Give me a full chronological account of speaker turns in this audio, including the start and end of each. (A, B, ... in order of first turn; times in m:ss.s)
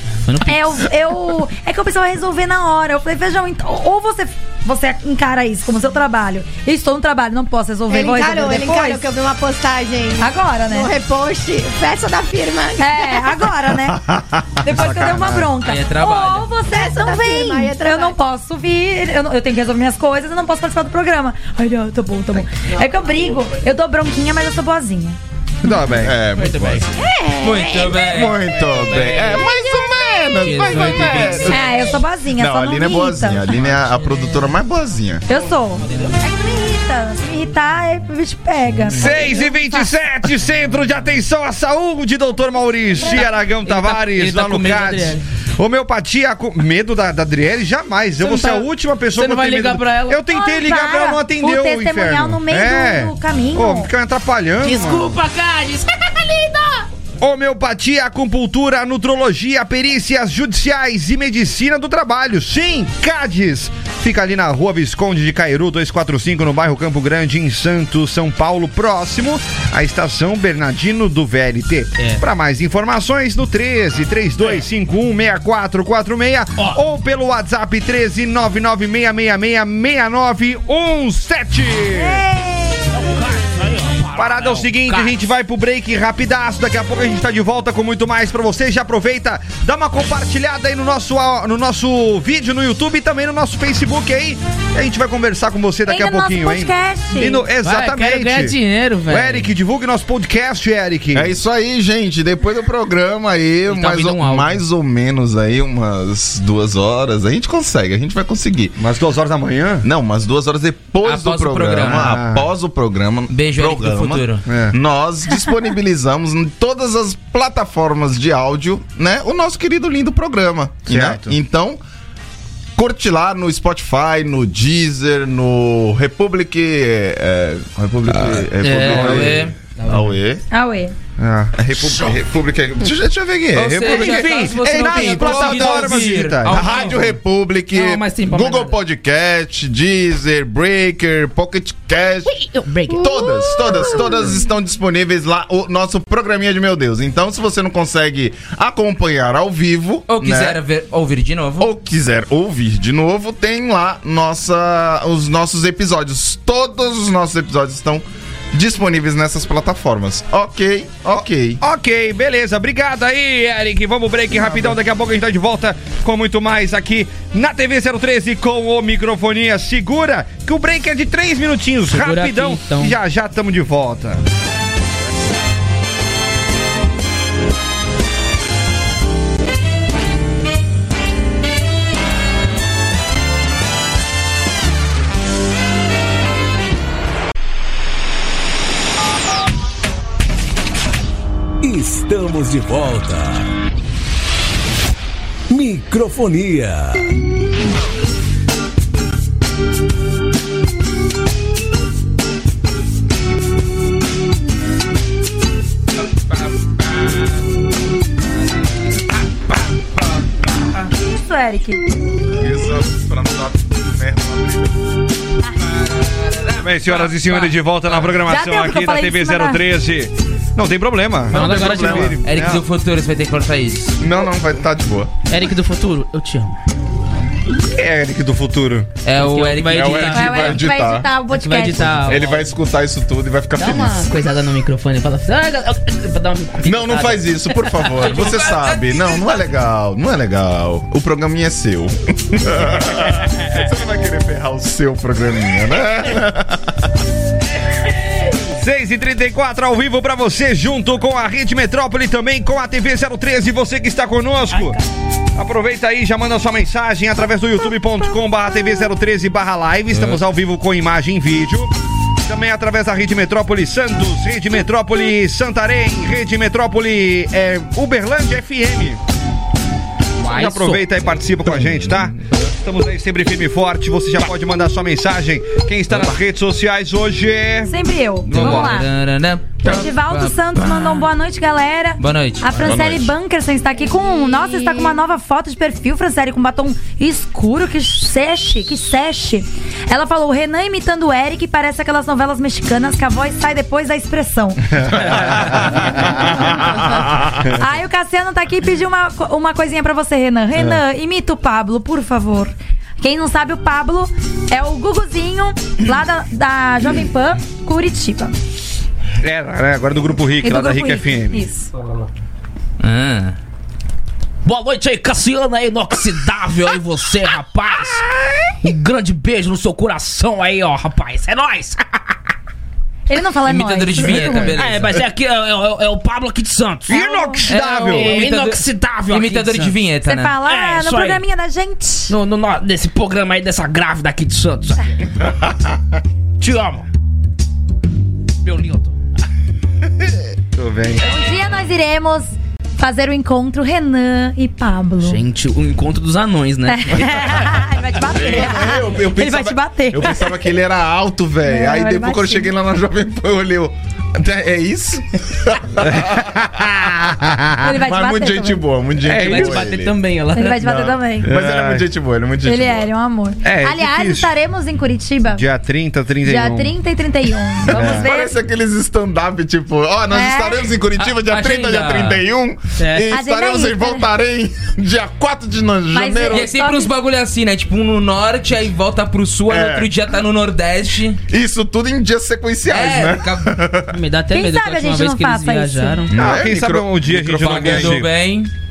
0:00.2-0:00.8 A
0:00.4-0:09.0 B
0:07.9-0:13.4 C
0:10.2-0:10.9 B
0:12.8-0:14.0 B
0:13.9-0:15.5 D
0:14.6-0:25.2 B
0:15.6-0:16.5 E
0:16.7-0:18.2 C
0:25.6-0:26.2 D
0:25.6-0:26.9 F
0:26.3-0:26.9 A
0:27.0-0:28.1 C
0:27.4-0:28.4 E
0:28.0-0:31.8 F
0:28.3-0:29.7 A
0:30.2-0:32.0 A
0:31.5-0:33.4 B
0:32.3-0:35.2 F
0:33.4-0:34.5 A
0:35.3-0:39.9 B
0:35.3-0:36.2 A
0:38.9-0:55.2 D
0:39.0-0:39.4 A
0:43.0-0:45.2 A
0:48.2-0:50.2 A
0:50.3-0:53.9 B
0:54.6-0:56.8 A
0:57.2-1:22.2 D
1:21.9-1:23.0 B
1:22.9-1:25.2 A
1:24.1-1:38.6 D
1:35.8-1:37.4 B
1:37.6-1:39.5 A
1:39.1-1:41.3 D
1:41.1-1:48.8 F
1:43.7-1:44.6 A
1:48.8-1:49.9 D
1:49.8-2:01.8 F
1:51.0-1:52.2 E
1:51.8-1:52.4 D
1:53.3-1:54.4 E
1:54.5-1:54.8 D
2:00.9-2:01.3 D
2:02.8-2:10.4 F
2:08.1-2:09.5 E
2:08.6-2:09.2 A
2:08.9-2:09.3 D
2:09.8-2:10.2 A
2:10.5-2:10.9 B
2:11.2-2:11.5 D
2:11.6-2:22.3 F
2:13.5-2:17.1 E
2:13.6-2:16.6 D
2:15.2-2:16.0 A
2:17.7-2:18.8 A
2:22.2-2:24.0 A
2:22.9-2:30.6 F
2:23.6-2:24.2 C
2:30.1-2:31.7 E
2:31.6-2:41.6 F
2:41.6-2:54.2 D
2:44.3-2:44.7 F
2:51.8-2:52.9 A
3:11.6-3:13.5 G
3:15.5-3:17.1 G
3:31.0-3:31.8 B
3:32.3-3:34.8 F
3:36.1-3:38.1 E
3:36.6-3:42.6 D
3:38.3-3:39.6 B
3:41.3-3:42.3 F
3:41.3-3:42.2 A
3:42.2-3:44.0 E
3:44.0-3:45.1 F
3:45.3-3:46.6 A
3:47.7-3:48.9 D
3:49.0-3:50.5 E
3:49.1-3:50.6 A
3:49.7-3:51.1 F
3:50.1-3:52.1 B
3:51.3-3:52.5 A
3:51.8-3:54.2 F
3:53.6-3:58.6 A
3:56.6-4:06.8 F
4:08.5-4:14.8 D
4:15.4-4:21.7 D
4:19.9-4:20.2 E
4:22.2-4:29.0 D
4:30.2-4:30.9 A
4:30.2-4:37.7 D
4:31.5-4:32.0 F
4:37.7-4:38.9 B
4:38.3-4:38.7 D
4:38.3-4:41.0 E
4:39.6-4:54.8 B
4:42.0-4:42.8 E
4:42.5-4:43.1 F
4:43.9-4:45.0 C
4:54.7-4:56.7 D
4:57.5-5:08.3 B
5:09.2-5:11.4 D
5:10.4-5:11.7 B
5:12.8-5:13.4 E
5:14.4-5:18.0 A
5:18.6-5:22.1 A
5:23.1-5:24.6 B
5:23.4-5:25.0 E
5:24.6-5:27.0 A
5:26.9-5:28.2 D
5:26.9-5:27.4 B
5:27.5-5:30.4 E
5:27.8-5:29.8 A
5:30.0-5:32.1 B
5:30.4-5:31.2 A
5:32.1-5:35.0 A
5:36.4-5:36.8 A
5:38.4-5:38.9 A
5:40.6-5:41.0 D
5:41.0-5:45.2 B
5:45.0-5:47.7 A
5:46.6-5:50.4 B
5:48.0-5:56.8 F
5:51.4-5:52.5 B
5:55.8-5:57.6 D
5:57.6-5:58.6 B
5:57.6-6:00.0 F
5:59.0-5:59.7 D
5:59.1-6:00.8 A
6:00.3-6:01.3 B
6:00.6-6:01.8 D
6:01.2-6:02.9 F
6:02.4-6:05.4 B
6:03.4-6:04.3 D
6:05.3-6:06.7 D
6:06.2-6:08.4 B
6:07.6-6:08.1 D
6:07.6-6:16.5 F
6:10.1-6:10.7 B
6:11.0-6:12.2 E
6:12.8-6:13.1 A
6:13.1-6:14.1 B
6:15.9-6:16.9 B
6:16.3-6:21.2 E
6:19.5-6:20.0 F
6:21.3-6:23.9 F
6:22.7-6:23.5 E
6:23.9-6:26.2 A
6:24.3-6:26.0 B
6:26.1-6:28.0 F
6:26.1-6:28.1 D
6:27.2-6:28.5 E